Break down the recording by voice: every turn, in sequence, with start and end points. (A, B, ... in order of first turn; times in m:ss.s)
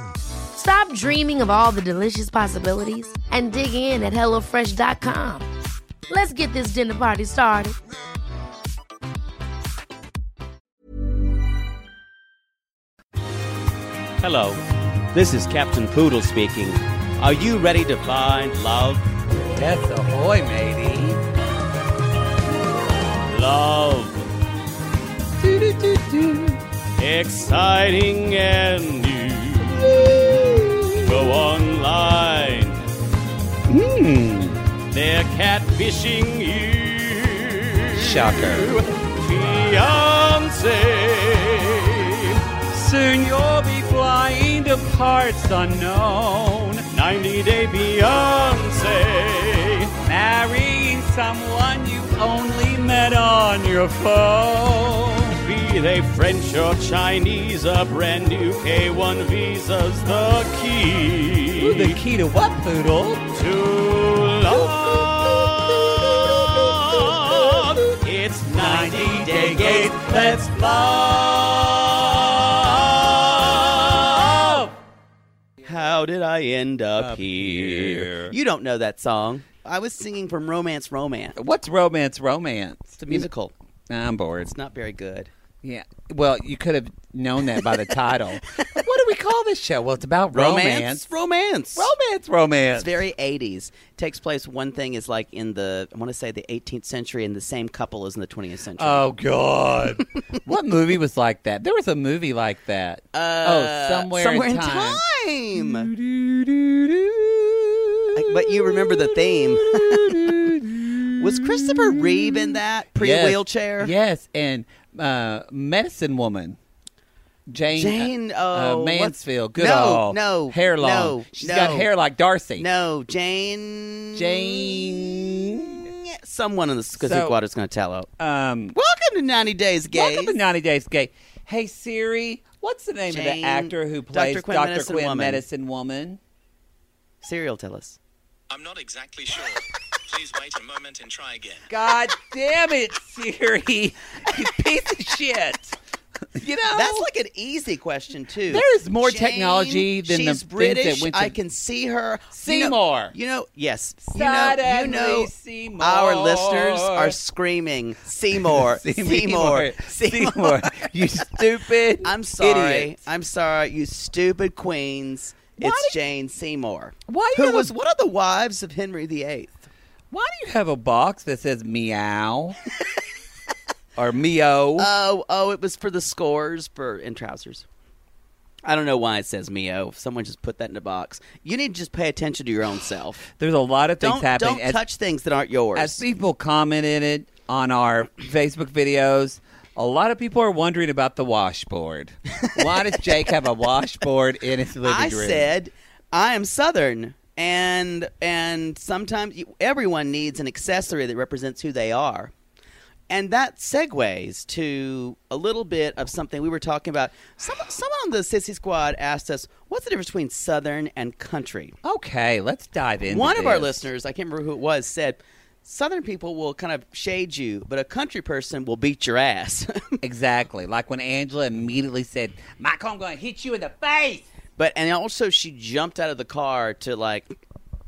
0:00.5-0:05.5 A
0:06.1-0:07.8 A
0:14.2-0:14.6 B
0:15.1-0:19.0 B
0:19.5-0:21.2 C
0:23.3-0:24.3 B
0:25.4-0:26.6 C
0:27.0-0:30.3 B
0:29.6-0:31.4 C
0:31.0-0:32.8 B
0:33.7-0:34.6 C
0:34.9-0:42.4 B
0:37.9-0:38.8 C
0:42.7-0:46.8 C
0:46.9-0:49.9 B
0:50.0-0:55.4 C
0:55.4-1:02.0 B
1:01.6-1:03.2 C
1:03.3-1:14.6 B
1:04.5-1:08.0 C
1:08.5-1:11.2 C
1:13.3-1:14.7 C
1:15.6-1:21.4 B
1:17.0-1:18.3 C
1:21.4-1:23.3 C
1:23.0-1:23.5 B
1:23.9-1:24.5 C
1:24.4-1:25.3 B
1:25.6-1:31.0 C
1:30.3-1:31.9 B
1:31.8-1:33.0 C
1:32.7-1:39.1 B
1:38.8-1:45.0 C
1:43.1-1:45.9 B
1:45.6-1:56.6 C
1:48.2-1:50.5 B
1:51.2-1:53.9 B
1:57.5-2:02.7 C
1:57.7-2:01.9 B
2:02.6-2:08.1 B
2:04.1-2:05.9 C
2:07.0-2:07.4 C
2:08.2-2:08.8 C
2:08.7-2:10.4 B
2:09.9-2:16.2 C
2:13.1-2:15.4 B
2:17.2-2:18.0 B
2:18.5-2:21.6 D
2:21.7-2:25.8 C
2:26.3-2:27.0 C
2:26.7-2:41.4 B
2:28.5-2:31.3 C
2:32.4-2:33.1 C
2:34.1-2:37.2 C
2:38.3-2:42.9 C
2:42.0-2:49.5 B
2:45.6-2:46.0 C
2:47.1-2:47.7 C
2:50.1-2:52.6 C
2:54.0-2:54.9 C
2:54.8-2:57.6 B
2:58.6-3:03.3 B
3:03.3-3:04.8 C
3:04.0-3:06.0 B
3:05.7-3:15.5 C
3:14.8-3:22.3 B
3:23.1-3:31.7 B
3:31.8-3:33.8 C
3:33.1-3:40.0 B
3:40.0-3:44.2 C
3:44.6-3:47.4 B